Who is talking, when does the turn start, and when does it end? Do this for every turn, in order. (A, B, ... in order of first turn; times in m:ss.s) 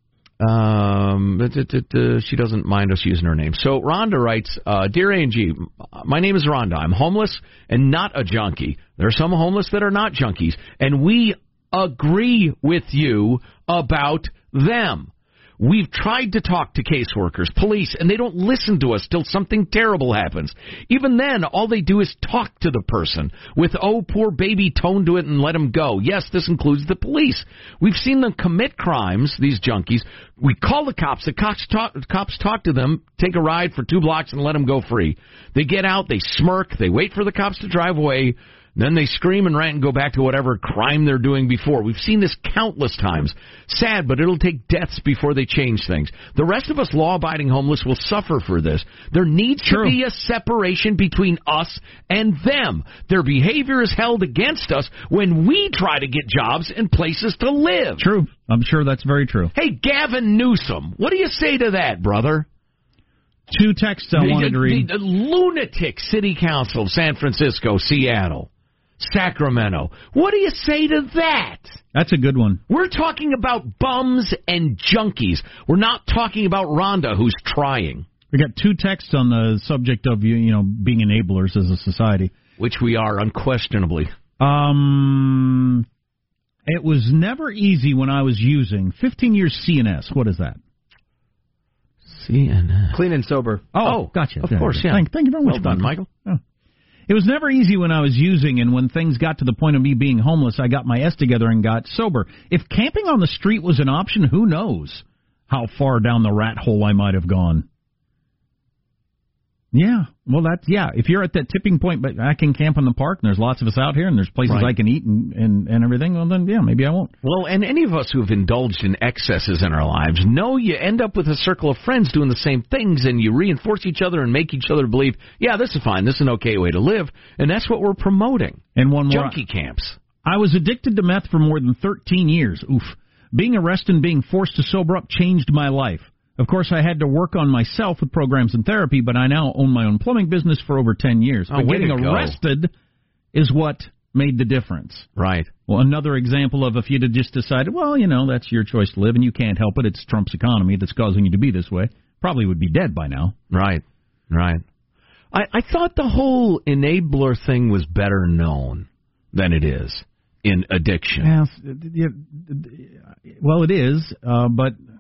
0:00.4-0:58.0 A
0:49.7-0:50.0 B
0:58.0-0:59.5 B
0:59.5-1:02.5 A
1:03.5-1:04.9 B
1:04.2-1:11.8 A
1:11.9-1:12.6 B
1:12.7-1:18.1 A
1:18.3-1:22.3 B
1:22.6-1:24.1 A
1:24.4-1:25.9 B
1:26.7-1:30.6 B
1:32.1-1:33.0 A
1:32.9-1:36.4 B
1:33.8-1:36.1 A
1:37.1-1:47.7 B
1:49.7-1:57.1 B
1:54.5-1:54.7 A
1:57.2-2:10.0 A
2:08.8-2:09.4 B
2:10.2-2:22.7 B
2:21.5-2:22.4 A
2:23.3-2:25.1 B
2:25.2-2:25.5 A
2:25.7-2:33.4 B
2:33.5-2:34.6 A
2:35.3-2:41.3 A
2:41.2-2:44.8 B